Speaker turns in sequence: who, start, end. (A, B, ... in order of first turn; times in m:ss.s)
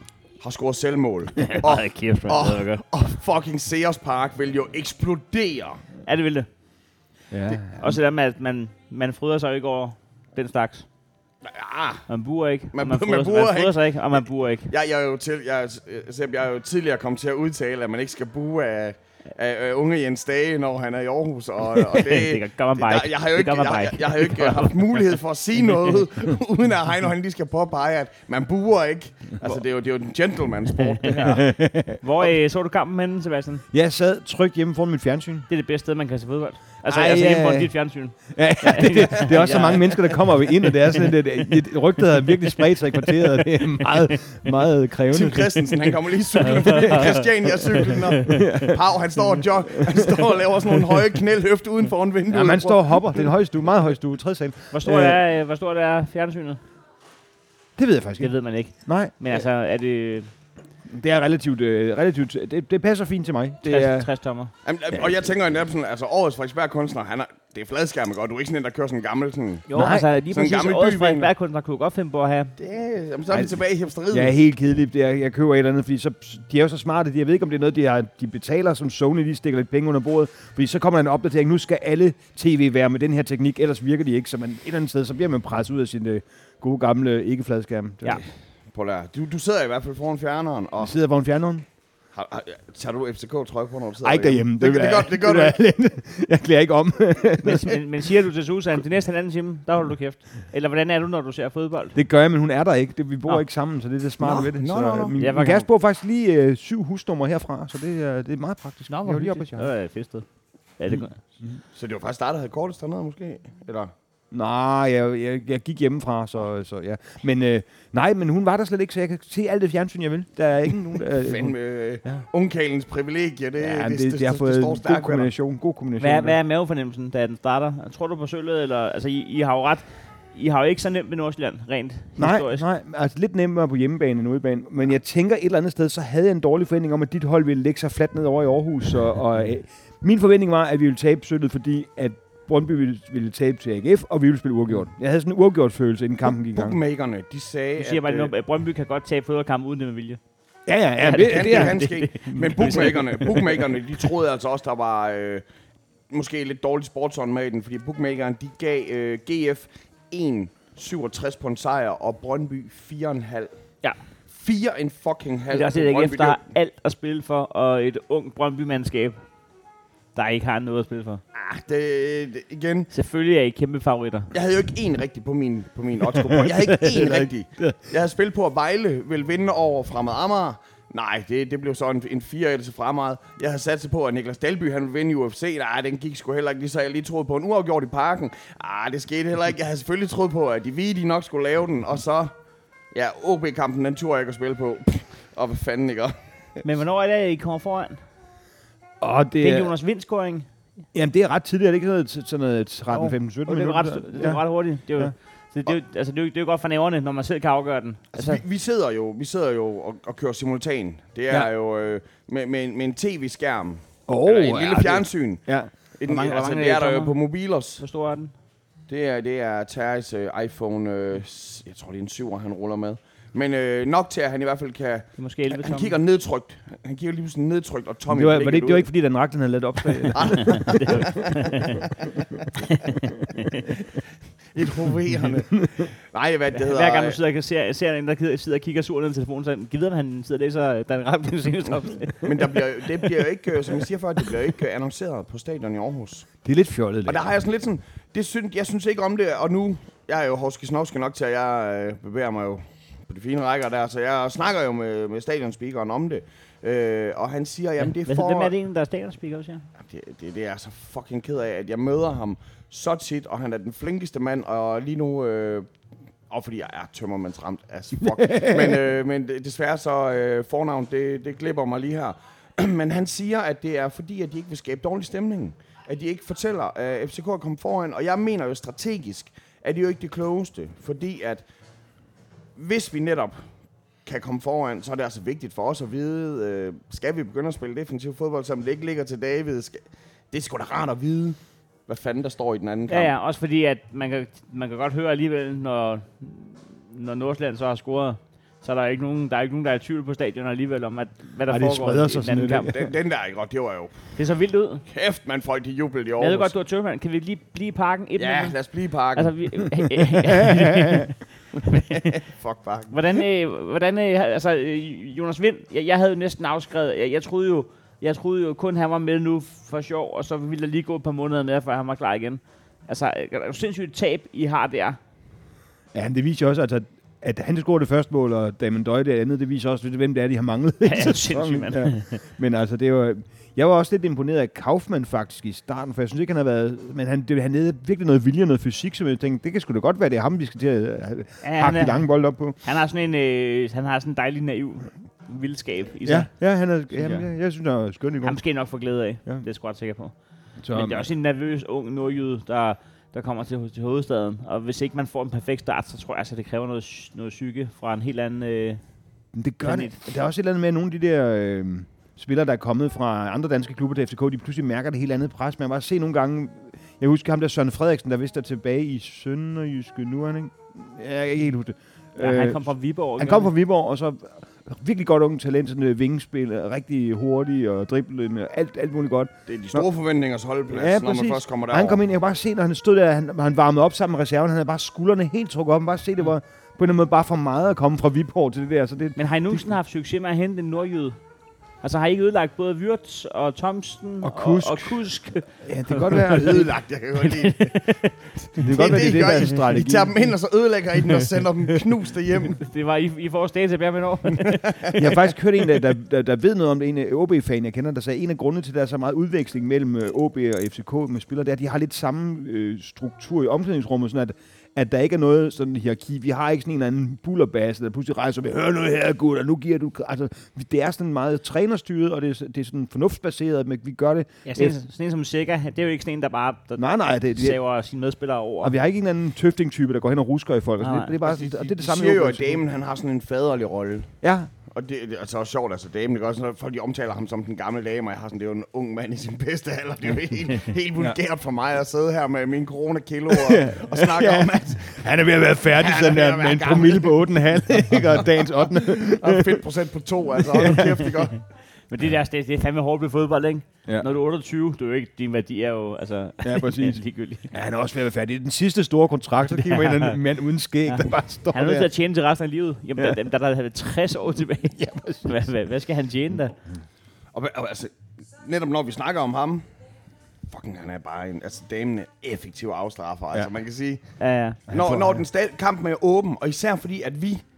0:00.4-0:05.8 A
0:01.4-0:02.8 B
0:06.1-0:06.5 B
0:07.3-0:08.0 C
0:07.8-0:10.9 B
0:11.4-0:12.1 A
0:12.1-0:14.7 B
0:12.7-0:13.8 A
0:14.7-0:31.5 A
0:21.9-0:24.8 B
0:31.2-0:32.0 C
0:32.0-0:33.6 B
0:33.7-0:35.5 C
0:35.5-0:40.3 B
0:36.8-0:37.7 C
0:38.3-0:50.3 C
0:45.1-0:53.3 A
0:46.6-0:47.2 B
0:47.9-0:48.4 B
0:52.3-0:55.2 C
0:54.7-0:56.6 B
0:57.8-0:58.3 C
0:58.2-1:00.3 B
0:58.8-0:59.1 C
1:00.9-1:04.1 C
1:03.6-1:04.5 B
1:04.6-1:09.7 A
1:09.7-1:12.5 B
1:09.7-1:10.1 C
1:10.3-1:11.3 A
1:12.6-1:14.4 A
1:13.3-1:13.6 C
1:14.1-1:28.2 C
1:28.7-1:31.0 A
1:30.8-1:31.6 C
1:32.2-1:35.6 A
1:34.0-1:37.8 C
1:37.4-1:42.0 B
1:42.0-1:49.7 C
1:44.2-1:45.2 A
1:45.2-1:45.7 B
1:48.9-1:50.2 B
1:50.8-1:51.2 B
1:50.9-1:51.6 C
1:51.8-1:53.9 A
1:54.3-2:02.2 C
2:01.2-2:05.3 A
2:03.6-2:06.4 C
2:06.0-2:12.6 B
2:12.2-2:26.8 C
2:26.5-2:28.3 A
2:27.8-2:30.2 B
2:30.7-2:32.6 C
2:31.0-2:33.6 B
2:31.0-2:35.4 A
2:36.1-2:43.5 A
2:44.3-2:46.5 A
2:45.5-2:49.2 B
2:50.2-2:51.2 B
2:51.4-2:52.9 A
2:52.9-2:54.3 B
2:54.3-3:12.3 A
2:56.1-2:57.8 C
3:12.9-3:16.1 A
3:16.6-3:18.0 B
3:19.0-3:19.7 C
3:19.4-3:20.5 B
3:20.9-3:24.4 C
3:22.9-3:28.4 B
3:28.1-3:35.4 A
3:34.1-3:35.7 C
3:36.0-3:37.8 A
3:36.1-3:37.2 B
3:37.8-3:38.3 B
3:38.9-3:48.9 A
3:45.2-3:46.0 B
3:48.1-3:50.9 C
3:50.1-3:52.1 A
3:50.4-3:51.8 B
3:52.6-3:53.7 B
3:54.5-3:57.2 A
3:56.6-4:02.4 B
4:02.2-4:06.3 A
4:06.4-4:07.3 C
4:07.1-4:18.5 A
4:17.8-4:19.7 B
4:19.8-4:25.7 A
4:26.3-4:41.4 A
4:28.1-4:28.8 C
4:42.6-4:43.4 A
4:44.1-4:53.1 A
4:52.9-5:02.7 B
5:01.5-5:02.9 C
5:02.6-5:04.0 A
5:04.2-5:04.8 B
5:04.9-5:06.5 A
5:06.2-5:08.6 B
5:08.2-5:10.0 A
5:09.2-5:12.2 B
5:10.4-5:11.0 C
5:11.6-5:13.2 A
5:12.9-5:25.0 B
5:25.9-5:42.6 C
5:30.8-5:32.2 B
5:41.4-5:42.1 B
5:42.6-5:46.3 B
5:46.0-5:48.4 C
5:46.9-5:47.3 B
5:48.2-5:50.1 B
5:50.6-5:51.1 C
5:50.7-5:58.8 B
5:59.3-6:19.8 C
5:59.6-6:00.0 B
6:12.2-6:13.5 B
6:19.5-6:22.0 A
6:20.7-6:29.7 C
6:29.2-6:31.2 B
6:31.8-6:36.5 B
6:34.2-6:35.1 C
6:35.6-6:36.7 C
6:36.1-6:37.8 A
6:37.2-6:38.2 B
6:38.4-6:42.6 A
6:38.6-6:40.2 C
6:42.5-6:45.0 B
6:44.3-6:45.0 A
6:45.0-7:04.8 C
7:04.5-7:08.7 B
7:06.8-7:07.6 C
7:08.6-7:12.6 C
7:10.8-7:11.2 B
7:11.2-7:14.1 A
7:14.2-7:14.5 C
7:14.7-7:25.0 A
7:23.3-7:29.6 C
7:25.8-7:27.3 A
7:28.7-7:31.4 A
7:30.4-7:31.2 C
7:31.9-7:37.5 B
7:36.4-7:41.9 C
7:39.5-7:40.2 B
7:41.5-7:46.6 B
7:44.8-7:45.4 C
7:47.3-7:49.6 A
7:50.5-7:54.2 A
7:54.2-7:54.6 B
7:54.7-7:57.4 A
7:54.7-7:55.2 C